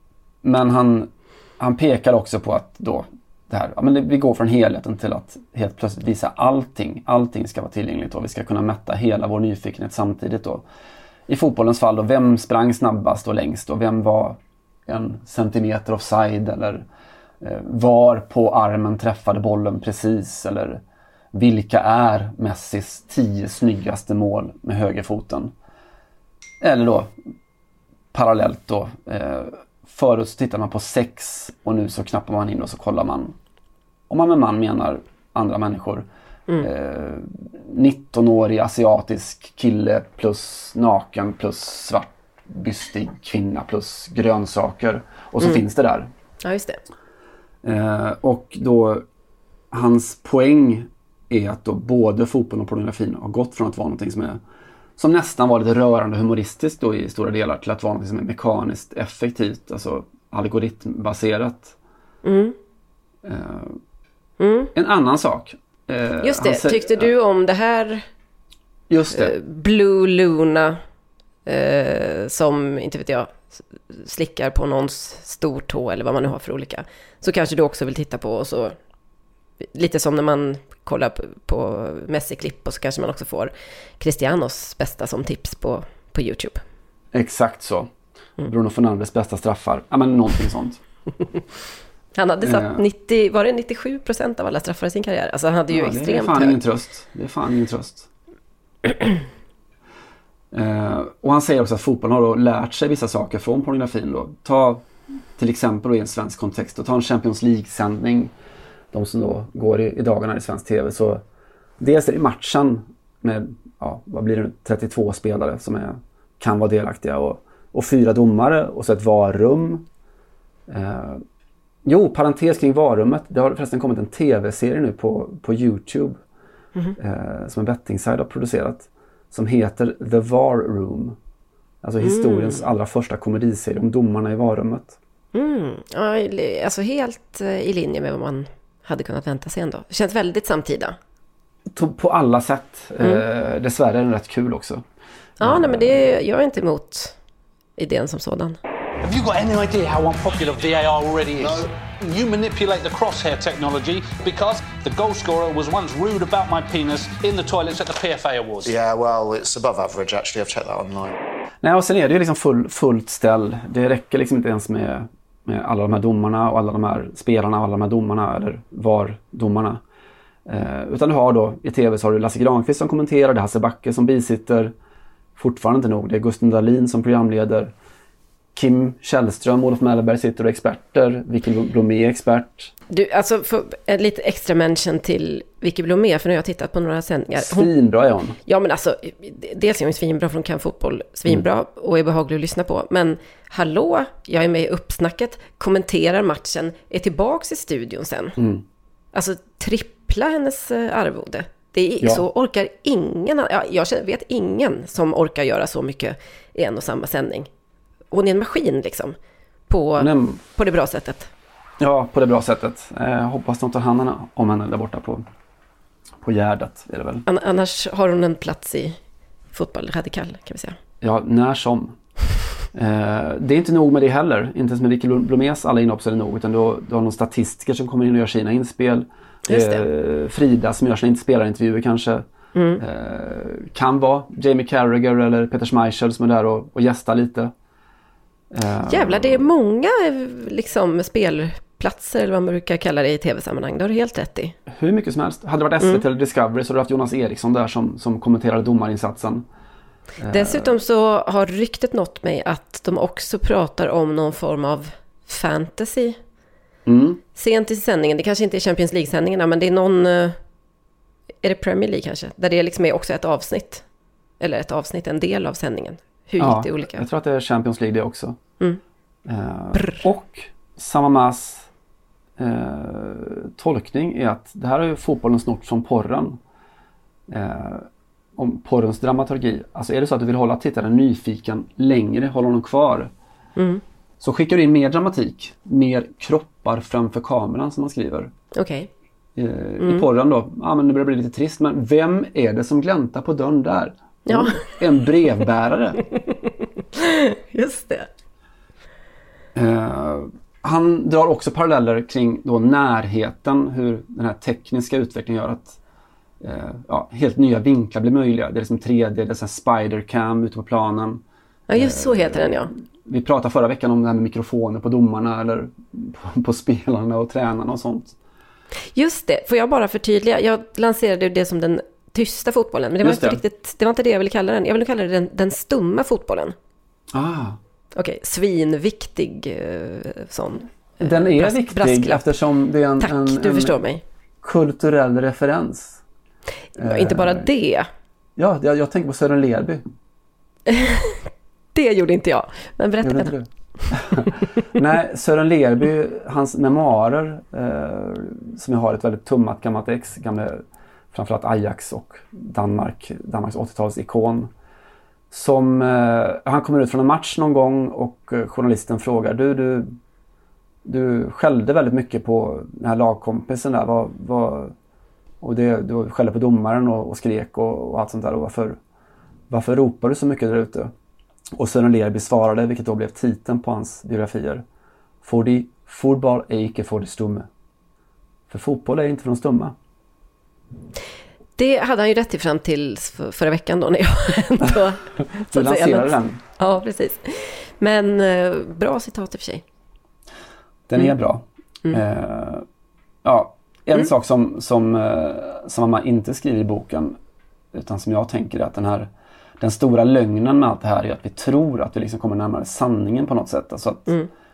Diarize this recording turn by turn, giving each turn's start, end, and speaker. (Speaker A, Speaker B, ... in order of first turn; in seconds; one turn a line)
Speaker A: 0.4-10.7
Speaker A: 11.3-16.9
Speaker A: 17.4-20.8
Speaker A: 21.3-25.5
Speaker A: 26.6-27.2
Speaker A: 28.1-33.4
Speaker A: 34.1-36.1
Speaker A: 36.6-46.1
Speaker B: 46.4-46.8
Speaker A: 47.6-49.0
Speaker A: 49.7-54.4
Speaker A: 55.0-61.8
Speaker B: 62.2-62.5
Speaker A: 63.2-63.8
Speaker B: 64.4-64.7
Speaker A: 64.7-67.1
Speaker B: 66.2-68.0
Speaker A: 68.9-69.4
Speaker B: 69.1-70.8
Speaker B: 71.5-73.3
Speaker B: 73.9-78.8
Speaker B: 79.7-86.6
Speaker A: 87.1-87.9
Speaker A: 88.4-90.8
Speaker B: 92.2-96.6
Speaker A: 92.4-92.8
Speaker A: 95.7-98.1
Speaker A: 100.5-104.8
Speaker A: 105.4-108.3
Speaker A: 108.9-111.2
Speaker A: 111.8-119.9
Speaker A: 120.7-121.2
Speaker A: 121.8-126.2
Speaker A: 127.0-131.2
Speaker A: 131.8-135.0
Speaker B: 132.0-132.6
Speaker B: 135.3-141.0
Speaker A: 141.7-144.8
Speaker B: 145.4-147.2
Speaker A: 145.4-146.1
Speaker B: 147.8-148.6
Speaker C: 149.0-158.8
Speaker D: 158.6-161.1
Speaker A: 161.6-169.8
Speaker A: 170.5-174.7
Speaker A: 175.4-177.7
Speaker A: 178.5-182.7
Speaker B: 182.9-187.7
Speaker A: 187.4-188.4
Speaker B: 188.5-198.4
Speaker A: 198.4-198.7
Speaker B: 199.1-207.5
Speaker B: 208.1-209.2
Speaker B: 209.7-211.3
Speaker A: 210.0-210.4
Speaker A: 211.8-215.2
Speaker A: 216.2-217.2
Speaker B: 217.3-219.0
Speaker B: 219.5-220.8
Speaker A: 221.0-222.0
Speaker A: 222.7-232.3
Speaker B: 229.5-229.8
Speaker B: 232.6-232.8
Speaker A: 232.8-237.5
Speaker A: 238.5-239.5
Speaker B: 238.9-244.6
Speaker A: 244.7-249.5
Speaker A: 250.2-250.8
Speaker B: 250.3-256.2
Speaker A: 256.9-257.2
Speaker B: 257.4-260.4
Speaker B: 261.4-263.8
Speaker B: 264.4-267.0
Speaker A: 266.4-268.4
Speaker A: 269.2-271.7
Speaker B: 269.7-270.0
Speaker A: 272.4-276.4
Speaker A: 277.3-283.1
Speaker B: 283.6-283.8
Speaker A: 284.2-288.3
Speaker B: 288.5-288.9
Speaker A: 289.4-296.0
Speaker B: 289.8-290.1
Speaker B: 294.3-294.7
Speaker B: 296.9-298.1
Speaker A: 299.6-305.8
Speaker A: 306.4-318.2
Speaker B: 311.7-312.7
Speaker B: 318.9-326.6
Speaker A: 323.0-323.4
Speaker A: 327.1-327.6
Speaker B: 327.9-332.2
Speaker A: 331.0-333.8
Speaker B: 333.0-334.0
Speaker A: 334.4-336.0
Speaker A: 336.8-337.5
Speaker B: 336.8-337.9
Speaker A: 338.4-339.9
Speaker B: 340.7-341.2
Speaker B: 341.8-343.3
Speaker A: 343.0-354.5
Speaker A: 355.3-360.0
Speaker A: 360.9-364.8
Speaker A: 365.4-368.8
Speaker A: 369.5-370.9
Speaker A: 371.6-374.6
Speaker A: 375.2-377.5
Speaker A: 378.5-379.8
Speaker B: 381.6-389.6
Speaker A: 385.5-386.4
Speaker A: 390.9-392.7
Speaker A: 393.2-397.2
Speaker A: 397.7-404.1